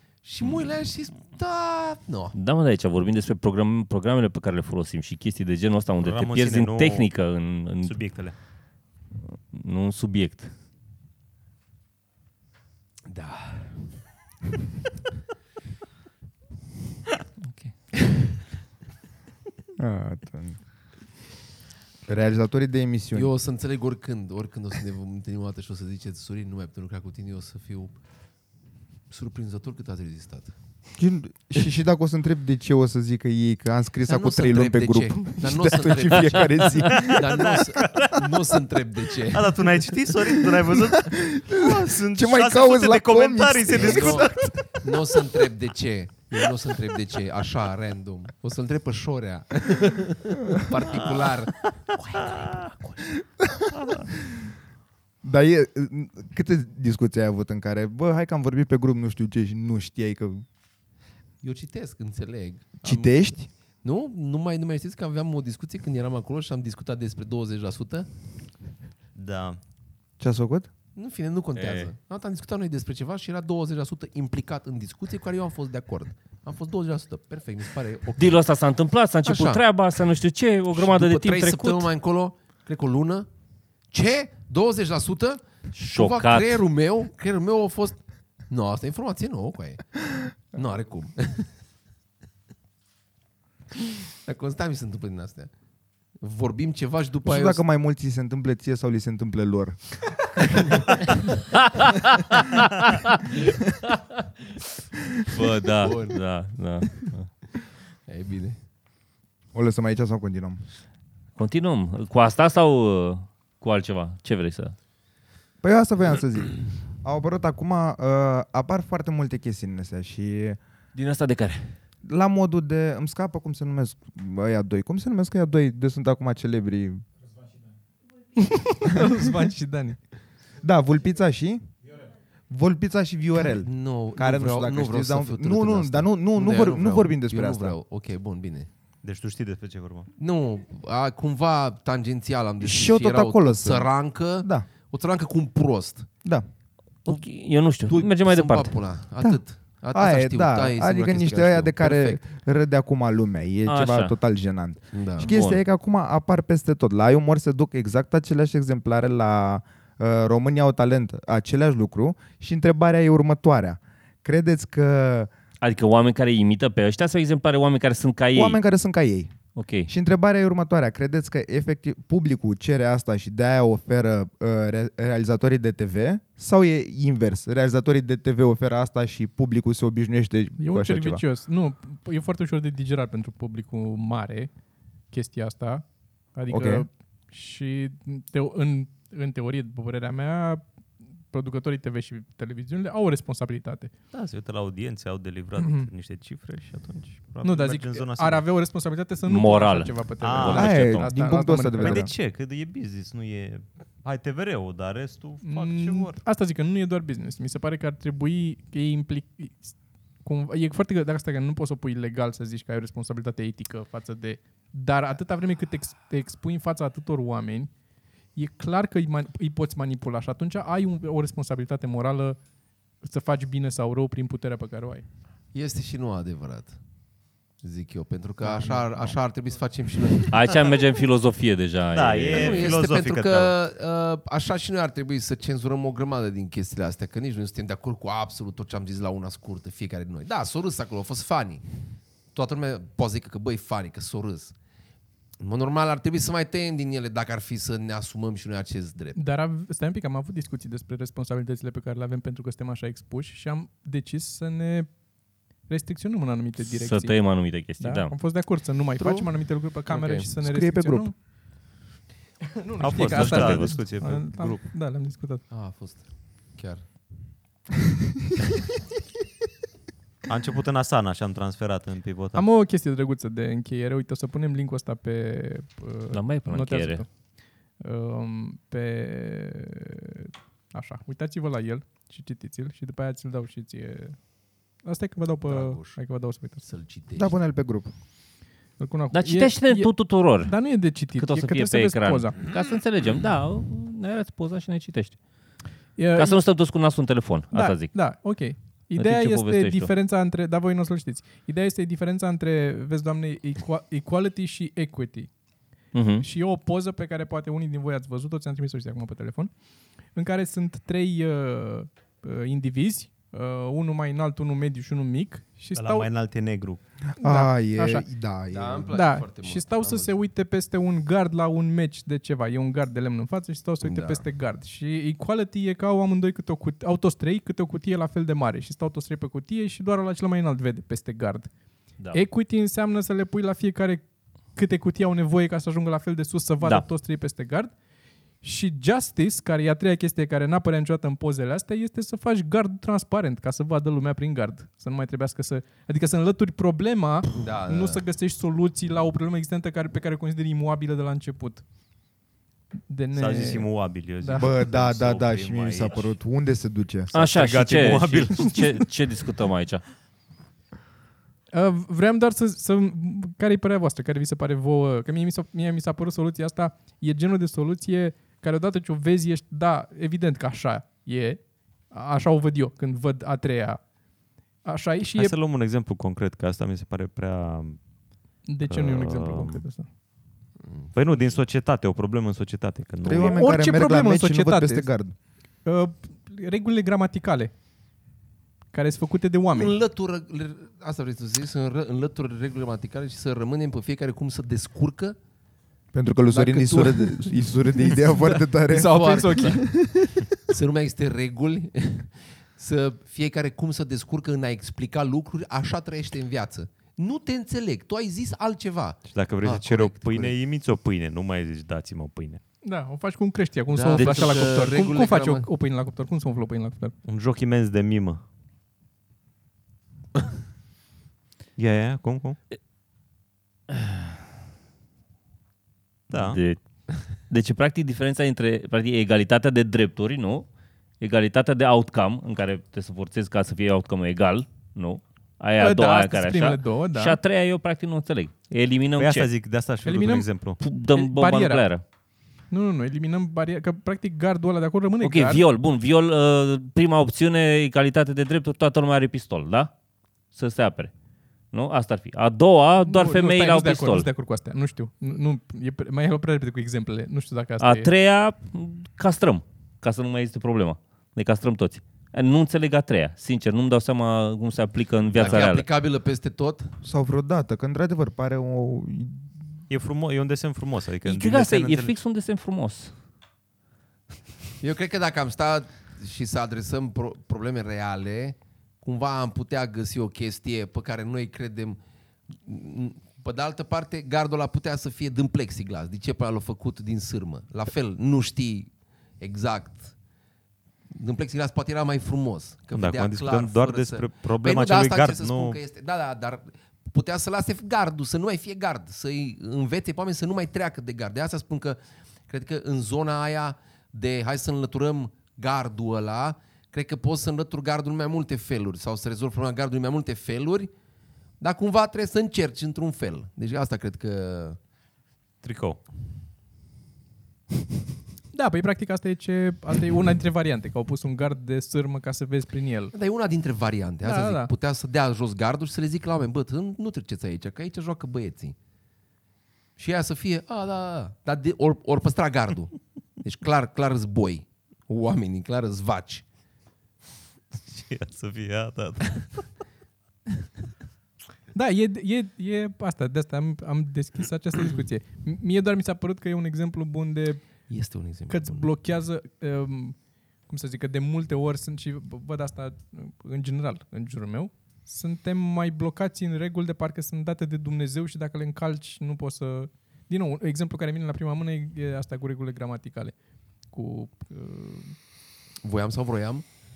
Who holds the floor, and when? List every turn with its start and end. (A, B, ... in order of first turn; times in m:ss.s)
0:00.2-0:02.3 A
0:02.3-0:08.0 B
0:06.0-0:07.1 C
0:07.8-0:08.4 C
0:09.5-0:10.5 B
0:13.1-0:14.0 A
0:19.8-0:20.6 D
0:22.1-0:23.3 D
0:23.1-0:28.0 A
0:29.1-0:30.5 A
0:31.0-0:37.3 D
0:34.1-0:39.8 A
0:36.9-0:38.4 C
0:39.2-0:44.8 C
0:40.3-0:44.5 D
0:43.7-0:53.2 A
0:51.0-0:51.7 C
0:53.7-0:54.1 C
0:55.2-1:00.4 D
1:01.4-1:03.3 A
1:02.8-1:03.5 D
1:03.8-1:08.1 A
1:09.2-1:09.6 C
1:10.2-1:10.7 D
1:11.0-1:18.4 A
1:18.2-1:21.9 B
1:19.2-1:19.6 A
1:20.7-1:23.3 A
1:23.9-1:29.8 A
1:25.8-1:26.6 B
1:30.5-1:31.5 A
1:34.2-1:35.5 A
1:36.2-1:37.6 A
1:37.2-1:40.0 D
1:41.8-1:43.4 B
1:45.3-1:47.3 B
1:45.8-1:46.2 A
1:48.1-1:48.6 A
1:49.5-1:50.6 D
1:51.4-1:54.8 B
1:55.6-2:00.6 D
2:01.0-2:01.8 B
2:02.0-2:07.0 D
2:08.4-2:10.0 E
2:10.6-2:11.7 D
2:12.5-2:17.8 D
2:13.4-2:18.7 A
2:19.0-2:20.1 C
2:20.2-2:26.1 A
2:22.6-2:24.7 D
2:27.0-2:28.8 B
2:27.9-2:32.2 A
2:29.9-2:45.3 D
2:33.7-2:34.1 B
2:34.9-2:35.3 A
2:35.2-2:35.6 B
2:45.6-2:48.6 B
2:48.3-2:49.3 D
2:49.6-2:49.9 B
2:49.9-3:01.2 D
3:00.6-3:04.5 E
3:05.1-3:10.6 E
3:06.5-3:06.9 D
3:11.3-3:13.9 E
3:14.1-3:18.5 C
3:15.6-3:15.9 E
3:17.4-3:22.1 E
3:19.3-3:21.1 B
3:20.2-3:21.0 C
3:20.6-3:22.1 D
3:21.8-3:26.2 C
3:25.4-3:37.7 E
3:38.4-3:42.4 E
3:43.0-3:45.0 E
3:45.5-3:46.8 A
3:47.6-3:50.7 A
3:48.4-3:48.8 E
3:50.3-3:52.8 B
3:51.9-3:53.6 C
3:52.3-4:01.6 A
4:02.3-4:04.6 A
4:05.4-4:09.2 A
4:09.2-4:14.9 E
4:15.7-4:17.2 E
4:16.7-4:18.1 B
4:17.8-4:21.1 E
4:19.0-4:19.3 A
4:19.9-4:20.3 A
4:20.4-4:21.1 D
4:22.6-4:25.4 E
4:22.8-4:24.8 C
4:25.5-4:26.9 A
4:30.3-4:32.5 C
4:32.3-4:37.1 E
4:36.1-4:37.0 B
4:37.7-4:44.2 E
4:44.8-4:46.7 E
4:45.5-4:46.0 A
4:46.7-4:47.3 A
4:47.2-4:47.9 D
4:48.8-4:52.4 E
4:49.1-4:55.2 B
4:56.0-4:56.4 E
4:56.2-4:58.0 B
4:57.5-5:05.3 E
4:59.0-4:59.9 B
5:05.9-5:06.2 B
5:06.2-5:09.5 E
5:10.1-5:16.1 E
5:15.8-5:16.8 C
5:17.2-5:18.0 E
5:17.2-5:19.0 D
5:18.5-5:20.2 A
5:18.9-5:31.5 E
5:23.8-5:24.2 A
5:32.1-5:34.0 E
5:34.6-5:37.7 E
5:38.4-5:51.6 E
5:47.4-5:48.0 A
5:52.9-5:54.5 E
5:53.2-5:56.2 C
5:54.4-5:57.1 D
5:57.1-5:58.9 C
5:57.1-5:59.8 B
6:01.5-6:13.8 E
6:14.6-6:15.4 E
6:15.0-6:17.8 C
6:18.5-6:19.9 E
6:18.7-6:19.7 C
6:20.6-6:21.4 A
6:21.0-6:23.4 C
6:23.0-6:25.2 D
6:23.2-6:24.9 E
6:25.6-6:27.5 E
6:28.7-6:29.8 E
6:29.5-6:35.2 A
6:35.9-6:40.3 D
6:36.3-6:39.6 A
6:38.2-6:39.6 E
6:40.4-6:50.4 A
6:49.1-6:52.4 C
6:52.6-6:57.0 E
6:53.7-6:55.5 A
6:53.9-6:54.3 C
6:57.0-6:58.2 C
7:01.6-7:02.4 C
7:03.7-7:04.2 B
7:06.1-7:06.4 C
7:06.2-7:10.5 B
7:11.0-7:19.3 B
7:15.6-7:17.2 E
7:19.0-7:20.6 C
7:19.8-7:20.3 E
7:20.6-7:21.8 B
7:20.9-7:21.6 E
7:22.5-7:25.4 E
7:25.0-7:29.7 B
7:30.3-7:30.9 B
7:31.5-7:34.1 B
7:32.8-7:37.9 E
7:37.6-7:45.7 B
7:45.2-7:46.8 A
7:46.8-7:49.3 D
7:49.7-7:51.9 C
7:51.0-7:52.9 B
7:54.6-8:10.0 A
8:10.9-8:30.7 A
8:12.7-8:15.6 C
8:31.4-8:34.6 A
8:35.4-8:35.8 C
8:38.3-8:42.9 E
8:42.9-8:48.6 A
8:44.0-8:44.5 E
8:49.8-8:56.2 A
8:57.6-8:59.4 C
9:01.5-9:07.7 E
9:07.7-9:08.7 A
9:08.3-9:23.2 E
9:23.7-9:25.0 E
9:25.6-9:26.4 A